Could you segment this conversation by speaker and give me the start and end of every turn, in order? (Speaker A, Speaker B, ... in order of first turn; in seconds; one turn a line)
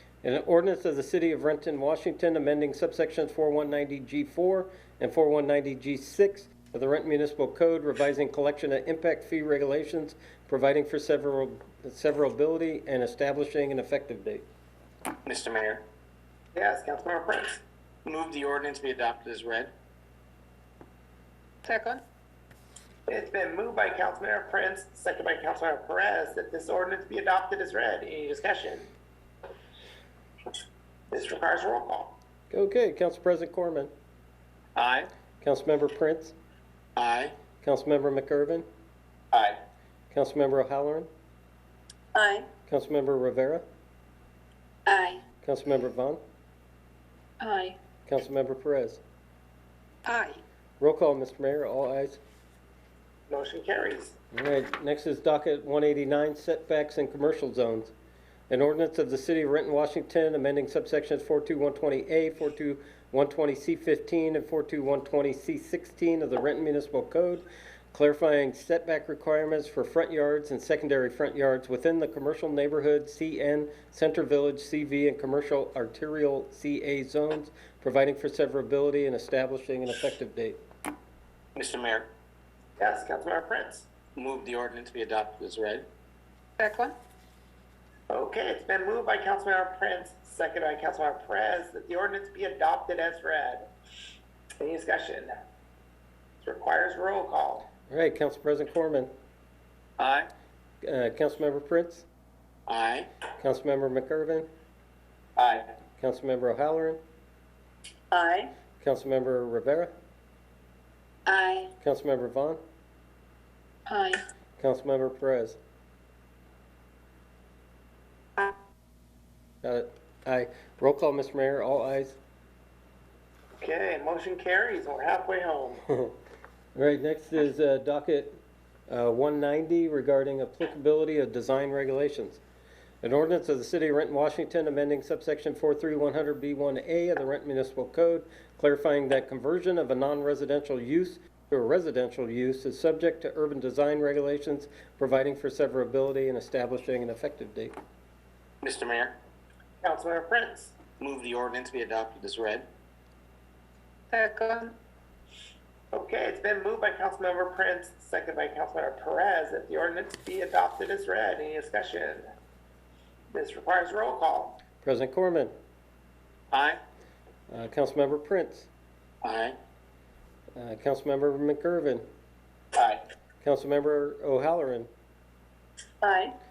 Speaker A: 0.2-14.4
Speaker B: 15.3-15.8
Speaker C: 16.5-17.6
Speaker B: 18.0-19.7
Speaker D: 21.7-22.0
Speaker C: 23.1-28.9
Speaker C: 31.1-32.2
Speaker A: 32.5-33.9
Speaker B: 34.8-35.1
Speaker A: 35.4-36.3
Speaker B: 37.0-37.3
Speaker A: 37.6-38.6
Speaker A: 40.1-41.1
Speaker D: 42.1-42.5
Speaker A: 42.7-43.6
Speaker D: 44.9-45.2
Speaker A: 45.4-46.2
Speaker D: 47.4-47.8
Speaker A: 48.0-49.0
Speaker D: 50.0-50.4
Speaker A: 50.8-52.2
Speaker C: 53.3-54.1
Speaker A: 54.3-57.9
Speaker A: 58.5-80.6
Speaker B: 81.5-82.1
Speaker C: 82.8-83.9
Speaker B: 84.1-85.9
Speaker D: 86.6-86.9
Speaker C: 88.1-93.7
Speaker C: 94.6-95.4
Speaker C: 96.4-97.7
Speaker A: 97.9-99.1
Speaker B: 100.0-100.3
Speaker A: 100.8-102.1
Speaker B: 102.7-103.1
Speaker A: 103.4-104.5
Speaker C: 105.4-105.6
Speaker A: 106.0-107.0
Speaker D: 108.1-108.5
Speaker A: 108.8-109.9
Speaker D: 111.2-111.7
Speaker A: 111.8-112.6
Speaker D: 113.9-114.2
Speaker A: 114.6-115.6
Speaker A: 119.6-122.2
Speaker C: 123.6-125.8
Speaker A: 126.8-128.4
Speaker A: 128.9-132.4
Speaker A: 133.0-147.7
Speaker B: 148.6-149.2
Speaker C: 149.8-150.8
Speaker B: 151.0-152.7
Speaker D: 154.1-154.8
Speaker C: 155.9-162.2
Speaker C: 163.3-164.6
Speaker A: 164.8-165.5
Speaker B: 166.5-166.8
Speaker A: 167.5-168.7
Speaker B: 169.2-169.6
Speaker A: 170.5-172.0
Speaker B: 172.8-173.0
Speaker A: 173.4-174.9
Speaker D: 176.0-176.3